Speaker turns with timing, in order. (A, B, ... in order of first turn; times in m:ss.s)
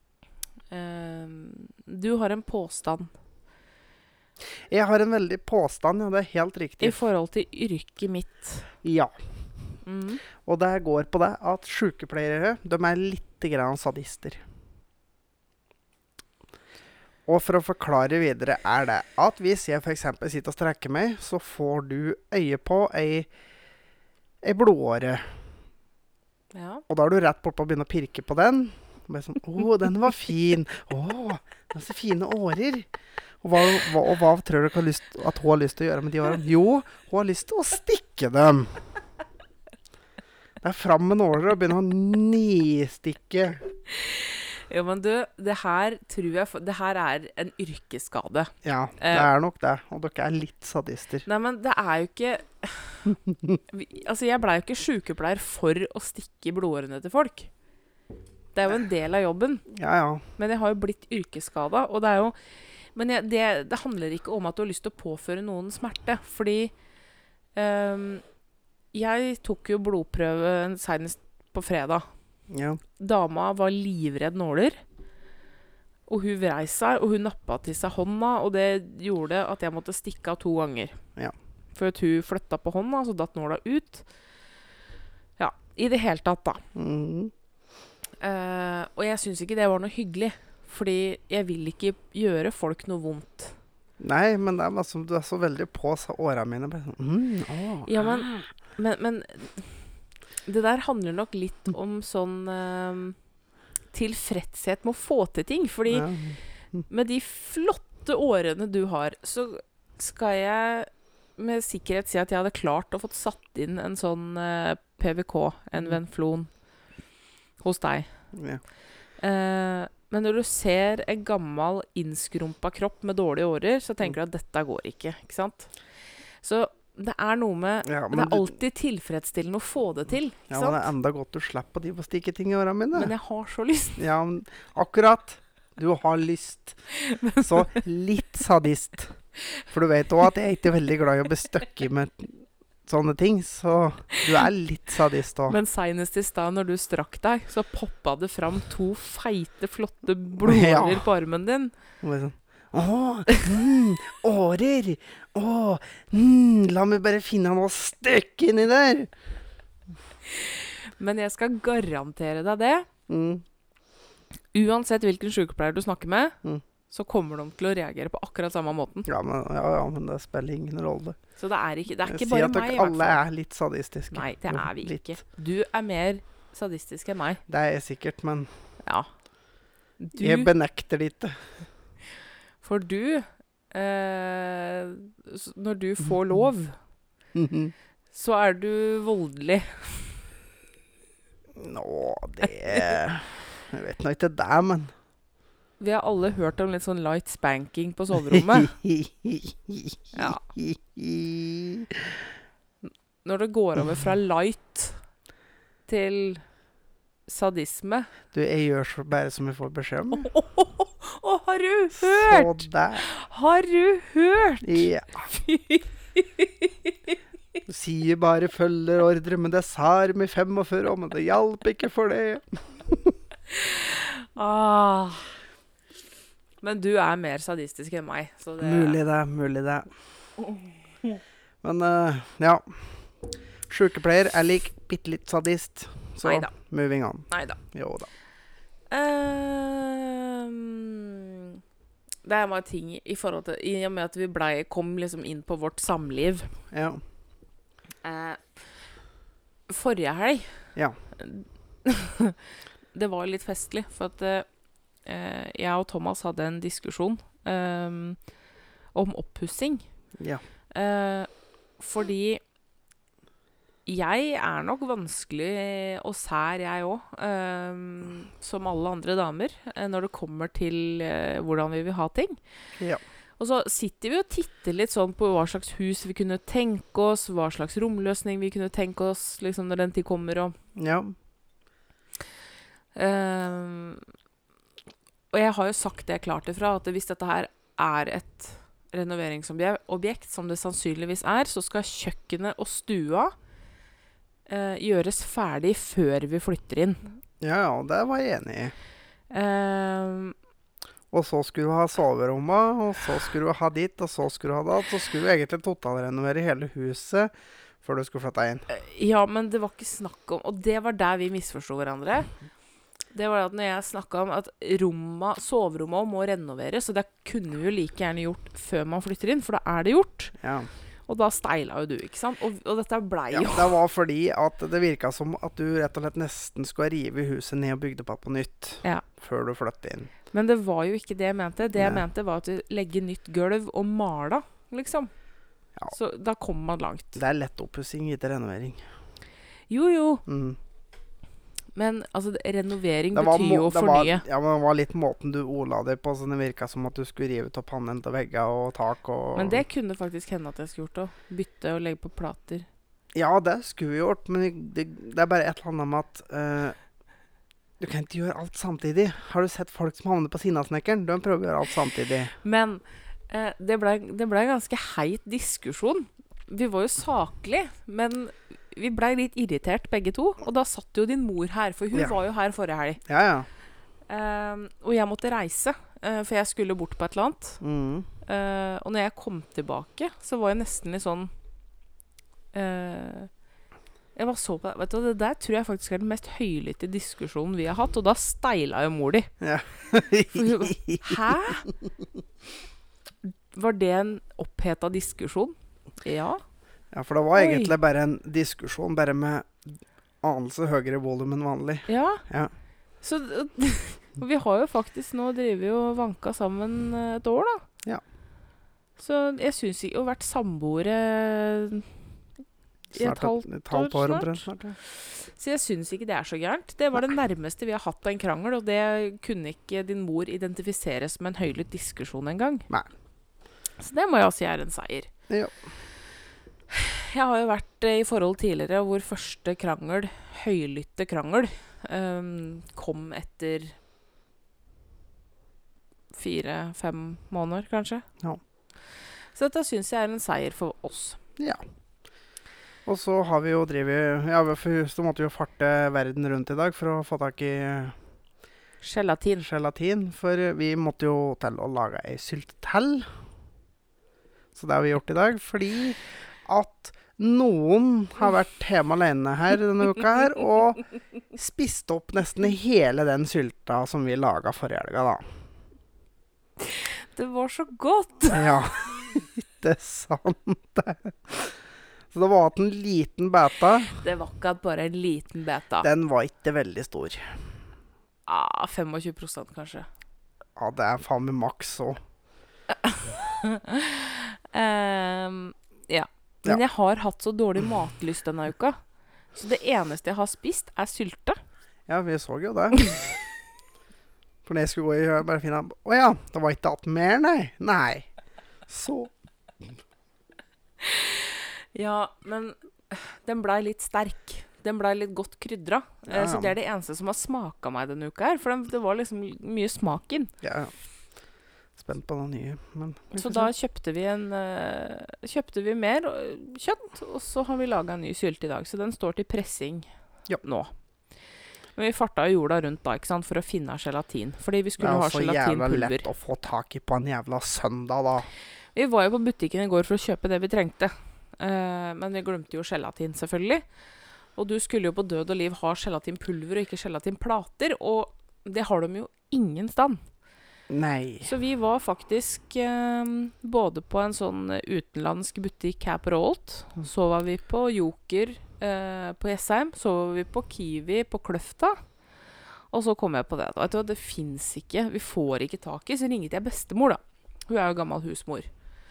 0:00.7-0:03.1 A
0:04.7-0:07.0 B
0:06.8-0:08.7 A
0:08.8-0:09.1 B
0:09.8-0:10.2 A
0:10.4-0:14.4 B
0:17.3-0:23.3 B
0:24.4-0:25.4 B
0:26.5-0:26.8 A
0:26.9-0:32.9 B
0:33.4-0:38.8 B
0:40.6-0:43.6 B
0:43.9-0:49.3 A
0:48.6-0:51.3 B
0:51.2-0:53.2 A
0:53.7-0:57.5 A
0:58.5-0:59.6 A
0:59.7-1:00.2 B
1:00.4-1:06.7 A
1:07.5-1:08.2 A
1:08.9-1:12.1 A
1:12.5-1:12.8 B
1:13.0-1:14.8 A
1:16.1-1:21.0 A
1:21.7-1:24.0 A
1:25.4-1:26.6 A
1:26.7-1:27.3 B
1:28.2-1:33.6 A
1:34.0-1:38.4 B
1:37.8-1:39.8 A
1:40.4-1:43.2 A
1:43.9-1:46.1 A
1:45.9-1:46.8 B
1:46.9-1:56.5 A
1:57.6-1:58.1 A
1:58.3-1:58.6 B
1:59.2-2:05.7 A
2:06.4-2:10.9 A
2:07.8-2:08.5 B
2:10.5-2:13.1 B
2:12.9-2:14.0 A
2:14.0-2:16.8 B
2:16.9-2:17.7 A
2:17.4-2:25.6 B
2:25.5-2:31.7 A
2:30.4-2:31.0 B
2:32.0-2:39.1 B
2:40.3-2:42.9 A
2:43.1-2:43.4 B
2:44.5-2:46.4 A
2:46.9-2:49.1 A
2:49.0-2:51.2 B
2:51.4-2:53.2 A
2:52.0-2:55.1 B
2:54.1-2:57.4 A
2:57.5-2:58.5 B
2:58.8-2:59.1 A
3:00.0-3:00.5 A
3:00.2-3:01.5 B
3:02.6-3:06.8 A
3:07.3-3:07.7 B
3:08.1-3:10.2 A
3:11.6-3:14.9 B
3:15.8-3:18.8 A
3:18.3-3:22.2 B
3:20.1-3:20.4 A
3:23.2-3:25.0 A
3:25.9-3:26.4 A
3:27.3-3:28.1 A
3:28.3-3:30.3 B
3:30.1-3:37.1 A
3:32.0-3:33.0 B
3:34.6-3:35.3 B
3:37.6-3:43.1 B
3:43.5-3:45.3 A
3:46.6-3:49.0 A
3:48.6-3:49.9 B
3:51.6-3:53.0 B
3:53.7-3:58.1 B
3:56.2-3:56.5 A
3:57.3-3:57.6 A
3:58.9-4:01.6 A
4:02.2-4:06.5 A
4:06.7-4:07.0 B
4:08.0-4:08.6 A
4:09.7-4:12.4 A
4:12.9-4:14.5 A
4:15.0-4:18.2 A
4:18.9-4:19.8 A
4:20.7-4:22.4 A
4:23.8-4:32.4 A
4:33.4-4:40.6 A
4:40.8-4:41.1 B
4:42.9-4:44.0 A
4:45.3-4:53.3 A
4:54.5-4:57.1 A
4:57.4-4:58.7 B
4:59.3-5:00.3 A
5:01.1-5:07.3 B
5:07.8-5:08.6 B
5:08.7-5:12.3 A
5:13.1-5:20.3 A
5:20.4-5:20.7 B
5:21.1-5:23.8 A
5:23.3-5:30.1 B
5:30.3-5:35.1 A
5:31.8-5:32.0 B
5:35.9-5:37.2 A
5:37.1-5:38.8 B
5:39.7-5:40.2 A
5:40.2-5:40.6 B
5:41.7-5:44.2 A
5:43.1-5:49.6 B
5:49.3-5:52.7 A
5:53.1-5:56.8 B
5:57.8-6:02.3 B
6:02.4-6:13.0 A
6:13.0-6:13.5 B
6:14.1-6:17.6 A
6:17.6-6:18.1 B
6:18.2-6:21.3 A
6:22.5-6:23.3 A
6:24.1-6:29.3 A
6:29.4-6:31.2 B
6:30.3-6:31.7 A
6:33.2-6:36.4 A
6:36.9-6:42.5 B
6:37.3-6:37.7 A
6:41.9-6:42.2 A
6:43.0-6:47.6 A
6:49.0-6:51.9 A
6:52.9-7:02.7 A
6:52.9-6:54.8 B
7:03.8-7:05.1 A
7:06.7-7:13.7 A
7:16.1-7:18.0 A
7:19.3-7:21.2 A
7:22.8-7:28.0 B
7:28.8-7:29.4 A
7:29.4-7:33.1 B
7:34.5-7:45.2 B
7:46.6-7:48.4 A
7:48.3-7:51.6 B
7:52.1-7:54.0 B
7:54.0-7:55.9 A
7:55.8-7:57.4 B
7:58.3-7:59.9 A
8:00.6-8:02.0 B
8:02.8-8:08.8 A
8:09.3-8:11.4 A
8:11.9-8:13.0 B
8:14.4-8:18.1 B
8:18.7-8:19.1 B
8:20.8-8:30.3 A
8:26.1-8:26.5 B
8:30.4-8:30.7 B
8:31.8-8:33.5 B
8:33.1-8:39.9 A
8:40.4-8:40.7 A
8:41.8-8:46.0 A
8:44.8-8:48.3 B
8:48.7-8:53.6 A
8:54.4-9:00.0 A
9:00.7-9:01.3 B
9:01.2-9:11.8 A
9:12.7-9:18.5 A